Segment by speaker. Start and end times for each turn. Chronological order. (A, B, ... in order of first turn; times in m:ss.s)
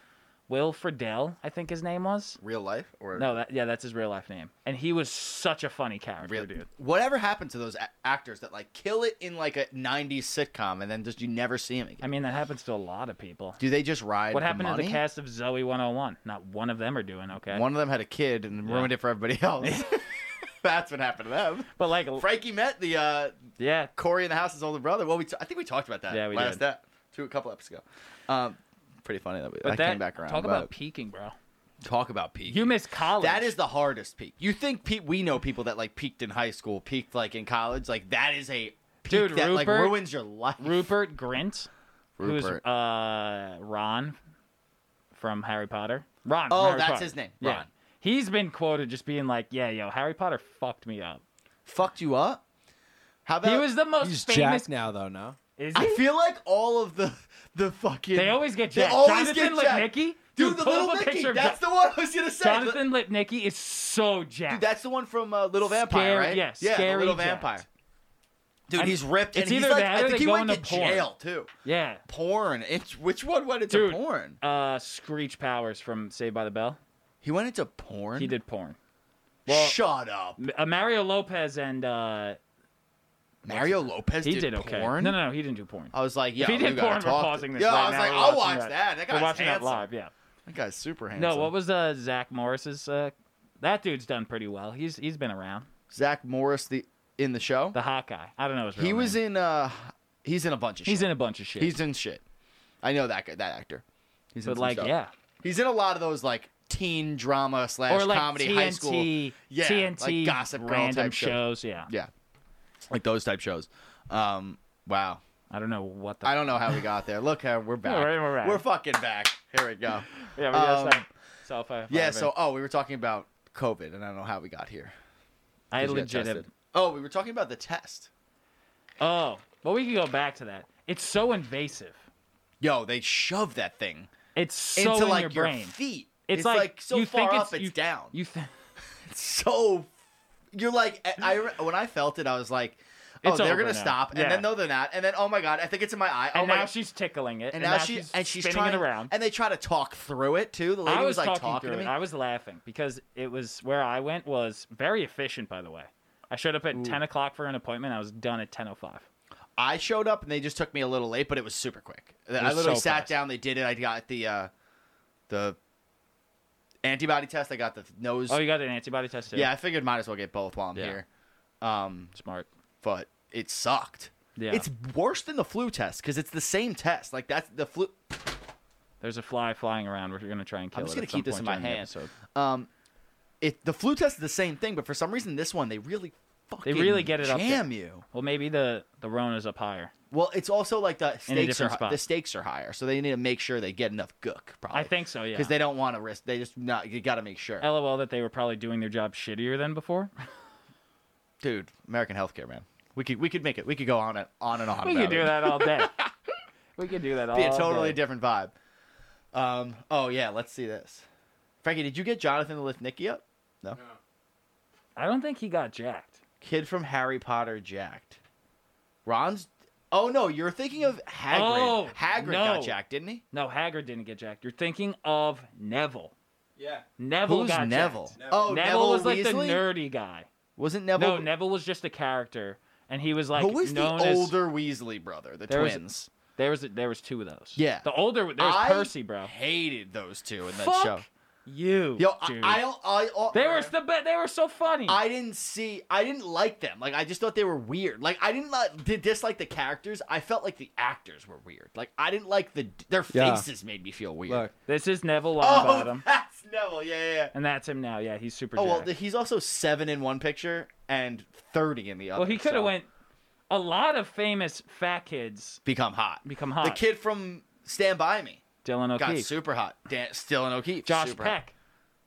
0:00.5-0:02.4 A
0:02.4-0:03.3 B
0:03.2-0:06.7 A
0:06.2-0:12.0 B
0:12.0-0:13.6 A
0:13.6-0:15.0 B
0:14.3-0:17.6 A
0:17.5-0:23.4 B
0:18.7-0:18.9 A
0:19.6-0:19.9 A
0:21.8-0:22.3 A
0:23.6-0:23.9 A
0:24.0-0:30.7 B
0:26.1-0:26.6 A
0:29.6-0:31.4 A
0:31.8-0:40.9 B
0:32.5-0:33.6 A
0:39.1-0:40.0 A
0:40.6-0:41.7 A
0:42.2-0:42.6 B
0:42.2-0:44.2 A
0:45.1-0:51.2 A
0:46.5-0:47.7 B
0:51.6-0:52.4 B
0:53.3-0:53.7 B
0:53.4-0:54.7 A
0:54.0-0:55.4 C
0:55.6-0:56.0 A
0:55.8-1:02.8 B
0:58.1-1:01.6 A
1:02.4-1:04.7 A
1:04.5-1:07.7 B
1:05.7-1:07.6 A
1:08.7-1:11.5 B
1:08.7-1:11.1 A
1:11.6-1:12.0 A
1:12.1-1:14.4 B
1:13.7-1:16.8 A
1:17.2-1:18.4 B
1:18.2-1:18.8 A
1:19.5-1:20.4 B
1:19.5-1:19.8 A
1:20.4-1:22.4 A
1:23.4-1:25.2 B
1:23.5-1:30.1 A
1:25.9-1:29.9 B
1:30.5-1:31.5 B
1:31.2-1:35.7 A
1:35.9-1:37.8 B
1:37.7-1:39.2 A
1:38.8-1:42.2 B
1:40.9-1:41.8 A
1:42.8-1:52.1 B
1:44.4-1:45.1 A
1:47.9-1:51.9 A
1:52.9-1:55.2 B
1:55.5-1:56.8 A
1:56.2-2:01.1 B
1:57.8-1:58.6 A
2:00.2-2:02.3 A
2:01.9-2:04.9 B
2:05.7-2:06.5 A
2:05.8-2:08.1 B
2:09.0-2:12.0 A
2:12.6-2:14.1 B
2:14.4-2:15.8 A
2:14.8-2:18.1 B
2:16.3-2:18.5 A
2:19.0-2:19.9 B
2:20.5-2:26.7 B
2:23.2-2:24.5 A
2:26.3-2:29.1 A
2:27.5-2:31.9 B
2:30.9-2:39.1 A
2:36.7-2:37.0 B
2:39.6-2:44.5 B
2:42.4-2:43.1 A
2:45.3-2:45.6 B
2:46.8-2:48.4 B
2:48.3-2:49.5 A
2:49.3-2:51.0 B
2:51.6-2:52.1 B
2:52.2-2:52.5 A
2:52.8-2:58.4 B
2:54.4-2:54.7 A
2:59.0-3:02.1 A
3:00.7-3:02.7 B
3:03.4-3:08.0 B
3:06.6-3:09.9 A
3:10.1-3:17.7 B
3:11.3-3:12.0 A
3:14.7-3:15.5 A
3:17.6-3:20.1 A
3:21.4-3:26.1 B
3:24.8-3:25.9 A
3:26.8-3:28.0 A
3:27.3-3:28.5 B
3:29.3-3:31.1 B
3:31.6-3:33.8 B
3:35.0-3:36.2 A
3:36.4-3:38.2 B
3:39.1-3:43.2 B
3:41.3-3:42.8 A
3:43.3-3:46.1 A
3:46.6-3:46.8 C
3:47.0-3:50.3 A
3:47.3-3:49.6 B
3:48.2-3:48.5 C
3:50.6-3:51.3 B
3:51.0-3:54.4 A
3:53.4-3:56.1 B
3:55.5-3:59.3 A
3:57.6-4:01.0 B
4:00.5-4:02.6 A
4:02.0-4:03.7 B
4:03.3-4:05.0 A
4:04.9-4:14.5 B
4:13.1-4:13.5 C
4:14.7-4:16.0 A
4:15.4-4:17.3 B
4:17.3-4:18.9 A
4:18.6-4:22.7 B
4:22.2-4:22.9 A
4:23.5-4:25.6 A
4:25.6-4:28.4 B
4:26.2-4:26.8 A
4:28.6-4:29.3 A
4:29.0-4:31.4 B
4:30.8-4:31.5 A